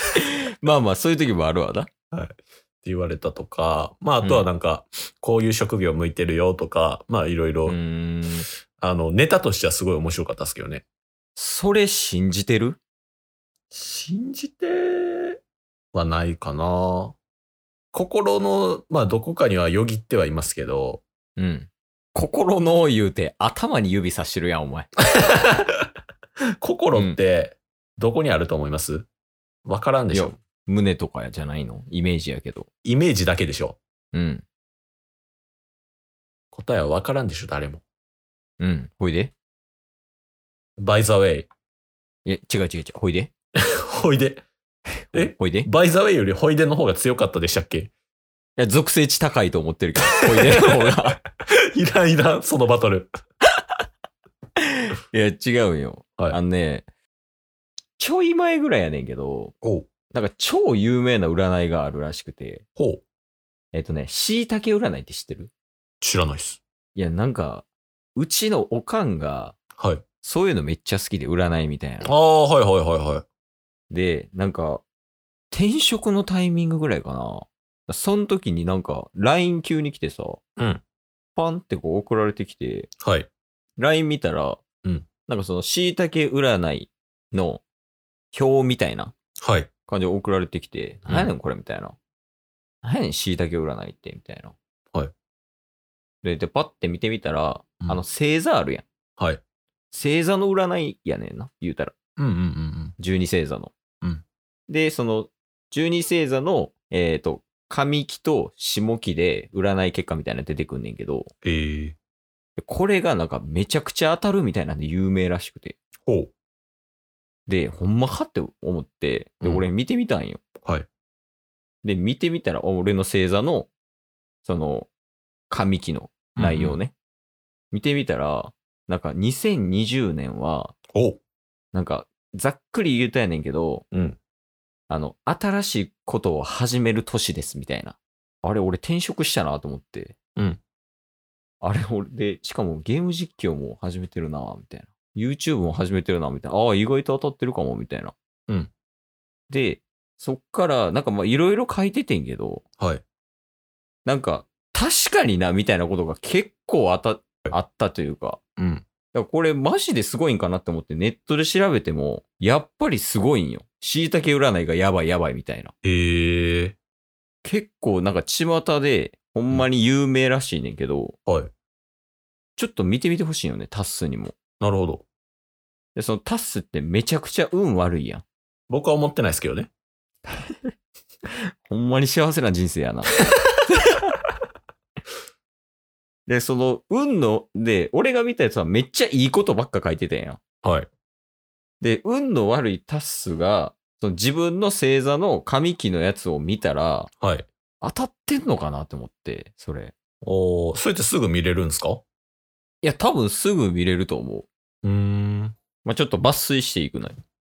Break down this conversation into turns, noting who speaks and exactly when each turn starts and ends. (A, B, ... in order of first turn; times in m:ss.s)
0:00.2-0:01.9 A
0:02.1-0:07.8 B
0:04.2-0:04.5 A
0:07.7-0:08.5 A
0:08.8-0:10.8 B
0:11.4-0:12.8 A
0:13.7-0:15.4 B
0:15.9-0:17.2 B
0:17.9-0:21.0 B
0:21.4-0:24.9 A
0:25.2-0:25.6 B
0:26.6-0:29.1 B
0:26.9-0:27.2 A
0:29.6-0:30.3 B
0:30.1-0:32.7 A
0:32.8-0:33.8 B
0:34.1-0:34.4 A
0:36.5-0:37.8 B
0:38.6-0:39.3 A
0:40.8-0:41.5 B
0:42.2-0:43.3 A
0:43.8-0:44.4 B
0:45.1-0:45.7 A
0:45.1-0:47.9 B
0:48.6-0:51.2 A
0:50.1-0:51.1 B
0:51.7-0:53.1 B
0:54.6-0:56.8 A
0:58.0-0:59.5 A
0:59.6-0:59.9 B
1:00.1-1:02.6 A
1:02.8-1:03.0 B
1:03.7-1:05.5 A
1:06.0-1:06.6 B
1:06.9-1:09.5 A
1:09.8-1:10.0 B
1:10.2-1:12.1 A
1:12.0-1:13.2 B
1:13.9-1:14.8 A
1:15.5-1:20.4 A
1:21.4-1:22.9 A
1:23.0-1:23.3 B
1:23.8-1:24.6 A
1:25.3-1:27.6 A
1:28.3-1:29.1 A
1:29.4-1:29.7 B
1:29.9-1:32.0 A
1:32.8-1:34.6 A
1:36.2-1:38.8 A
1:39.9-1:41.9 A
1:42.2-1:43.0 B
1:43.0-1:43.7 A
1:44.7-1:51.3 A
1:51.4-1:52.0 B
1:52.6-1:55.8 A
1:56.0-1:56.3 B
1:57.5-2:00.4 A
2:01.8-2:03.7 A
2:04.4-2:04.9 A
2:05.5-2:06.9 A
2:06.4-2:06.8 B
2:07.7-2:10.7 A
2:10.9-2:11.2 B
2:11.7-2:13.8 A
2:13.9-2:14.2 B
2:14.9-2:20.1 A
2:21.6-2:28.1 A
2:29.5-2:32.6 A
2:34.0-2:38.4 A
2:38.6-2:38.8 B
2:39.1-2:45.7 A
2:45.8-2:46.8 B
2:47.4-2:51.2 A
2:52.6-2:54.3 A
2:54.6-2:55.0 B
2:55.9-2:58.2 A
2:58.7-2:59.7 B
3:01.7-3:03.2 A
3:03.7-3:04.0 A
3:06.3-3:10.4 A
3:10.6-3:10.9 B
3:11.8-3:17.1 A
3:17.2-3:17.5 B
3:17.8-3:19.9 A
3:20.2-3:22.0 B
3:22.8-3:24.5 A
3:24.8-3:25.6 B
3:25.8-3:27.2 A